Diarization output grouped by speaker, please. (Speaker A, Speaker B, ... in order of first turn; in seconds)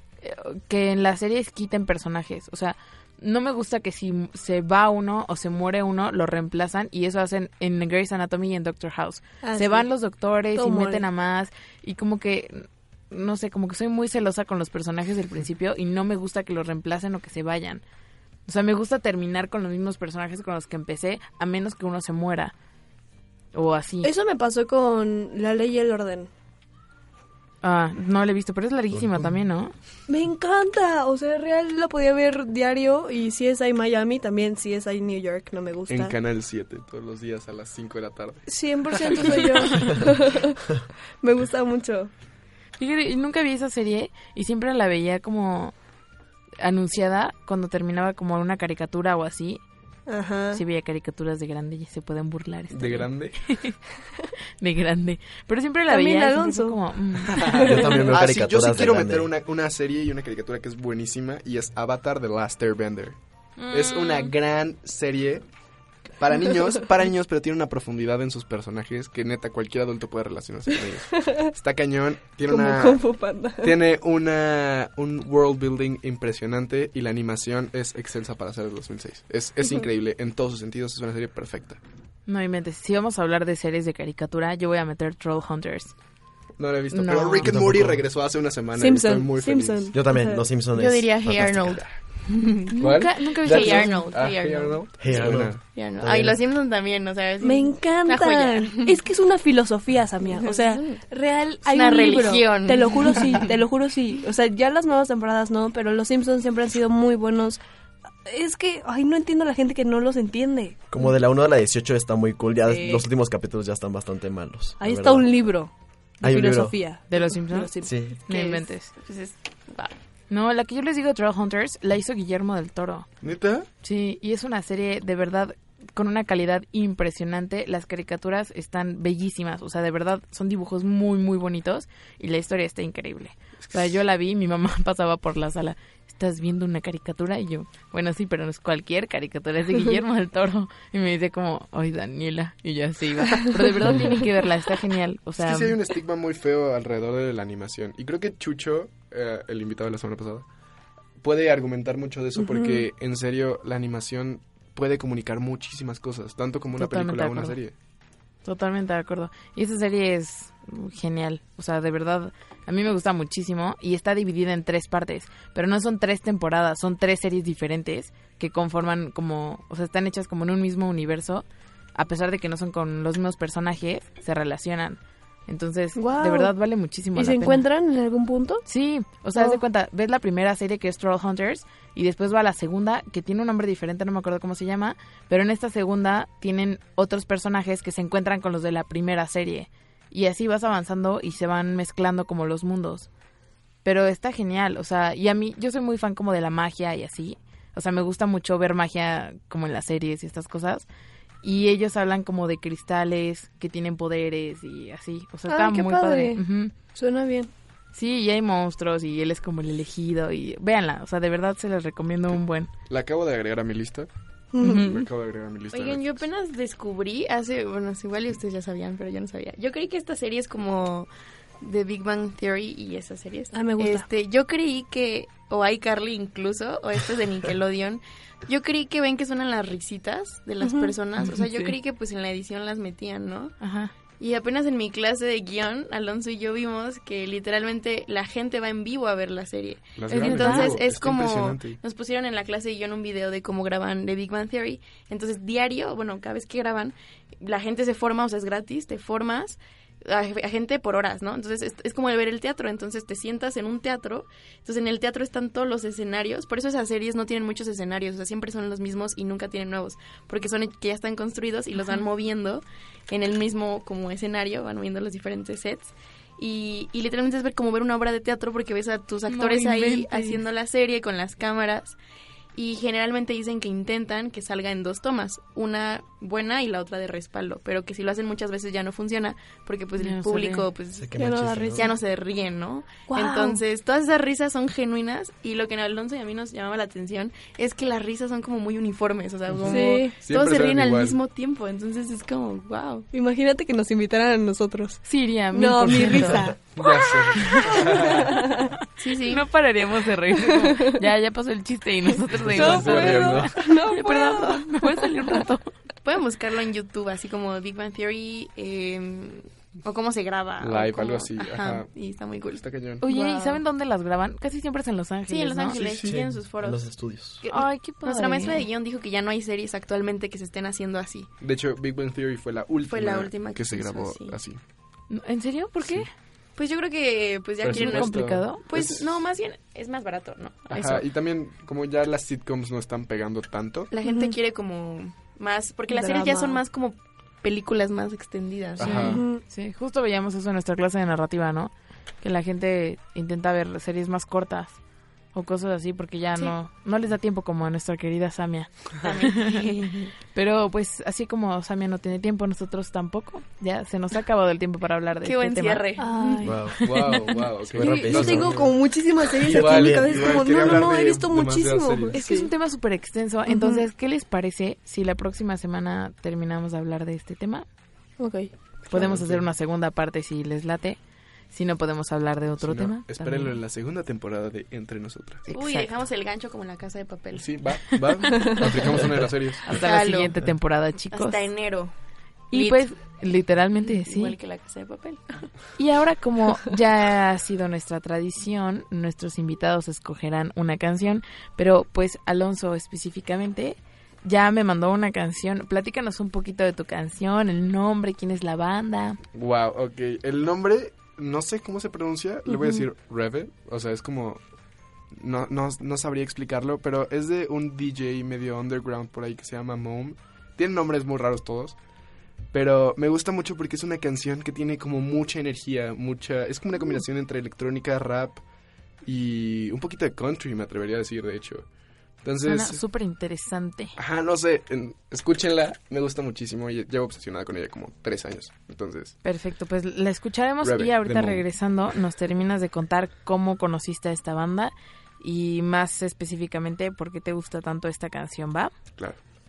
Speaker A: 0.2-17.8, 18.5-22.5, 23.5-24.1, 27.6-29.7, 42.8-45.7, 46.6-49.6, 50.5-53.8, 54.6-57.6, 63.6-64.3, 82.3-85.9, 86.9-87.5, 92.7-94.1, 117.1-118.9, 120.3-123.1, 123.8-145.8, 156.7-157.6, 158.4-177.6, 178.7-193.1, 193.8-200.8, 201.4-206.7, 207.9-212.7, 214.6-215.0, 231.3-231.7, 233.6-233.9, 240.1-240.8, 269.3-270.4, 280.0-280.6, 295.0-296.5, 299.2-305.7, 313.0-315.8, 317.5-318.6, 325.1-326.1, 327.7-328.6, 339.5-344.8, 345.3-349.6, 350.3-355.8, 356.8-357.2, 362.1-367.6, 368.9-371.0, 371.5-373.6, 375.5-375.9, 378.2-378.6, 379.6-381.5, 382.5-384.4, 385.8-399.2, 422.4-423.9, 429.2-438.7
Speaker B: 9.4-9.9, 10.5-11.1, 24.0-26.3, 30.1-36.1, 38.5-40.6, 41.2-42.1, 50.1-50.6, 55.9-58.1, 71.2-71.5, 72.5-73.7, 88.8-90.4, 97.4-107.6, 108.2-110.8, 112.7-113.0, 114.8-117.9, 152.3-152.9, 175.9-176.5, 177.1-178.6, 205.5-207.5, 214.5-215.0, 223.5-224.0, 230.6-230.9, 281.2-281.9, 283.1-283.6, 289.6-290.2, 293.1-298.6, 300.4-301.0, 302.5-305.1, 313.1-313.6, 334.0-334.3, 335.9-336.6, 338.8-339.4, 356.0-356.7, 357.8-362.5, 363.5-363.8, 368.2-368.5, 402.5-402.8
Speaker C: 28.9-29.4, 57.6-59.3, 87.4-88.0, 89.9-91.8, 95.0-96.4, 110.9-115.4, 116.2-116.8, 117.8-118.2, 280.9-281.9, 315.8-317.4, 357.7-358.8, 359.4-360.8
Speaker D: 35.9-39.4, 52.7-53.4, 57.4-65.4, 66.2-73.1, 73.6-81.8, 86.6-89.9, 92.8-95.6, 123.2-123.7, 133.7-133.9, 145.4-150.4, 151.2-157.7, 212.9-214.1, 214.7-216.2, 240.0-241.8, 290.2-291.2, 296.7-298.3, 302.5-303.6, 310.6-311.9, 312.6-313.0, 315.7-316.3, 321.4-324.6, 327.6-329.1, 330.7-333.9, 338.8-339.2, 356.4-358.9, 359.4-362.2, 368.9-369.5, 372.6-375.5, 377.3-379.6, 399.3-404.4, 405.1-411.8, 412.5-418.4, 419.0-421.6, 422.2-422.8, 423.9-429.1, 430.6-431.4
Speaker E: 90.7-99.0, 100.3-101.0, 101.7-103.5, 118.3-120.0, 215.7-221.1, 221.6-233.6, 234.2-272.0, 272.5-293.1, 299.0-299.5, 306.0-313.2, 315.3-316.8, 317.4-321.3, 322.9-324.4, 326.6-331.0, 333.9-339.2, 349.0-350.1, 355.2-356.6, 375.5-377.5, 379.7-380.3, 381.1-381.9, 382.5-382.9, 383.9-385.4